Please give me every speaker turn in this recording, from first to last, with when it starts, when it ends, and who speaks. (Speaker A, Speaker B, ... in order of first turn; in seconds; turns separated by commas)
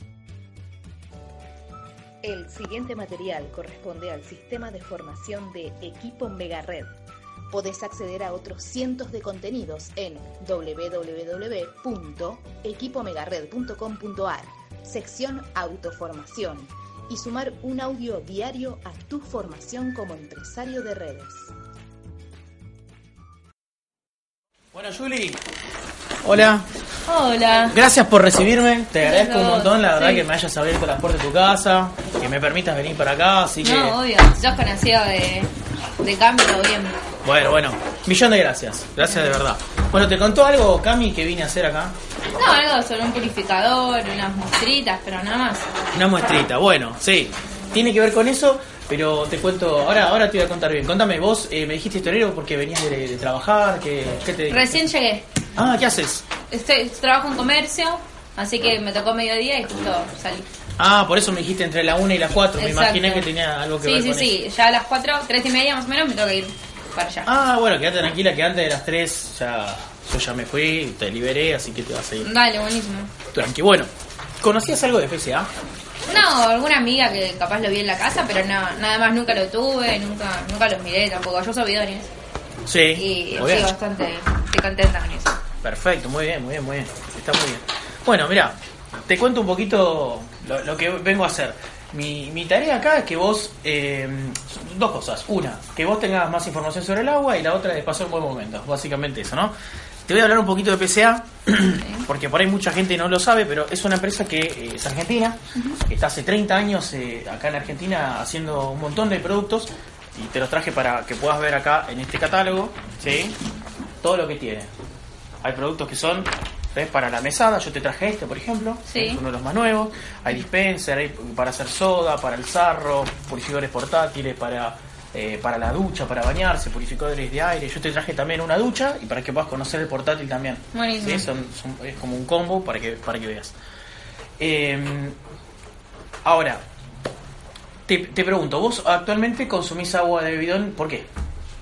Speaker A: 2.2-6.9, Speaker A: 7.5-21.5, Speaker B: 24.7-25.4, Speaker B: 26.2-26.7, Speaker C: 27.1-27.7, Speaker B: 27.7-34.0, Speaker C: 29.0-30.2, Speaker C: 33.6-35.5, Speaker C: 36.0-37.0, Speaker B: 37.2-42.0, Speaker C: 39.0-39.4, Speaker C: 42.3-45.7, Speaker B: 45.9-54.9, Speaker C: 54.5-55.3, Speaker B: 55.6-56.2, Speaker C: 56.5-60.5, Speaker B: 60.8-64.3, Speaker C: 62.6-63.3, Speaker C: 63.8-67.3, Speaker B: 67.2-72.3, Speaker C: 72.2-73.1, Speaker B: 73.3-73.9, Speaker B: 74.4-75.5, Speaker C: 76.1-82.1, Speaker B: 82.7-83.7, Speaker C: 83.0-85.4, Speaker B: 85.6-88.5, Speaker B: 89.1-99.5, Speaker B: 100.1-113.4, Speaker C: 101.8-102.1, Speaker B: 114.0-114.7, Speaker B: 115.4-133.5, Speaker C: 118.9-119.2, Speaker C: 130.7-131.2, Speaker B: 134.4-135.2, Speaker B: 136.2-136.6, Speaker B: 137.9-141.1